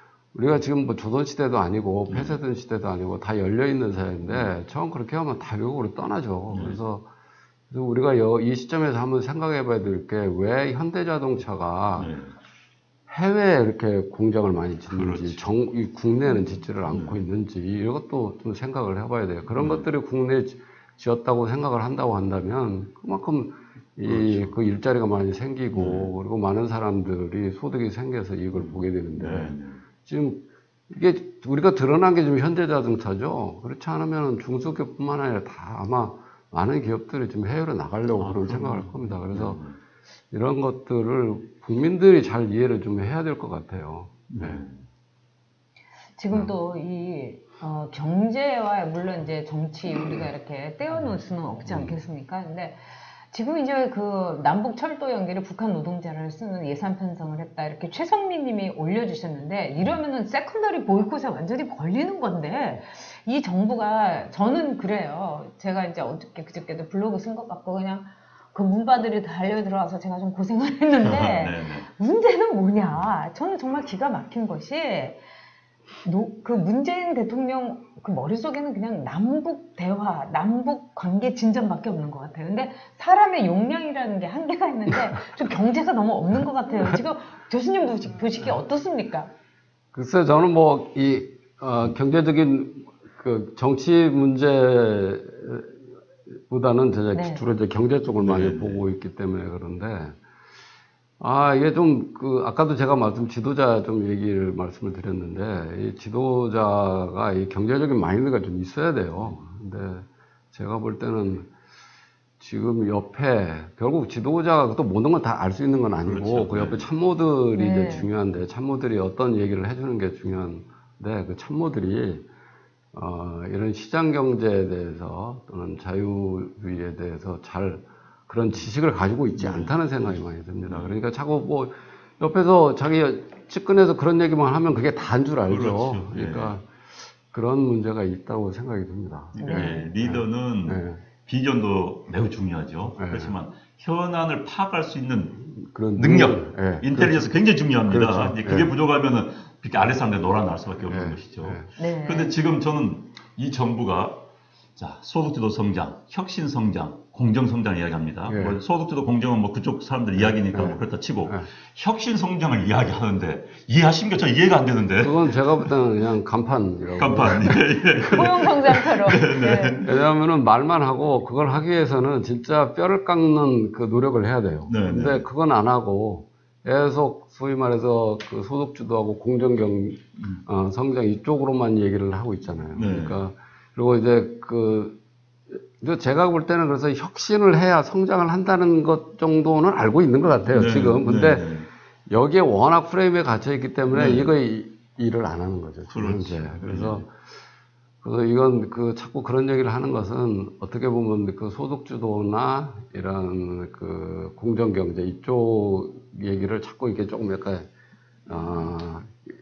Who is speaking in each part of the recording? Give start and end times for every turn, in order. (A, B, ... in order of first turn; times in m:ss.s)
0:00.3-0:07.0 A
0:02.1-0:02.4 B
0:04.2-0:04.5 B
0:06.5-0:06.8 B
0:07.7-0:12.1 A
0:12.0-0:12.3 B
0:13.1-0:39.6 A
0:14.9-0:15.5 B
0:16.8-0:17.2 B
0:19.5-0:19.9 B
0:24.0-0:24.6 B
0:25.7-0:26.1 B
0:28.5-0:29.8 B
0:38.2-0:39.8 B
0:40.3-0:44.6 A
0:44.3-0:44.8 B
0:46.2-1:15.2 C
0:46.3-0:46.5 A
1:11.0-1:11.9 B
1:16.0-1:29.3 C
1:29.9-1:35.8 A
1:36.5-1:40.2 A
1:37.1-1:37.4 C
1:38.2-1:38.8 B
1:41.2-1:51.5 A
1:49.2-1:49.4 B
1:52.4-2:02.2 A
1:56.0-1:56.8 B
1:57.5-1:58.1 C
2:02.9-2:21.0 A
2:09.3-2:10.9 B
2:15.5-2:16.6 B
2:19.3-2:25.4 B
2:19.4-2:19.9 C
2:23.0-2:23.4 A
2:25.4-2:28.7 A
2:26.0-2:34.2 B
2:30.8-2:31.7 A
2:31.8-2:32.4 C
2:34.8-2:45.7 B
2:38.3-2:38.6 A
2:40.2-2:41.5 A
2:45.0-2:48.3 A
2:46.9-2:49.9 B
2:48.0-2:49.8 C
2:49.8-3:05.0 A
2:54.7-2:55.2 B
3:02.7-3:03.2 B
3:05.8-3:11.5 A
3:10.4-3:11.7 B
3:12.1-3:17.1 A
3:13.9-3:14.3 B
3:15.9-3:17.0 B
3:18.0-3:27.7 A
3:28.2-3:29.2 A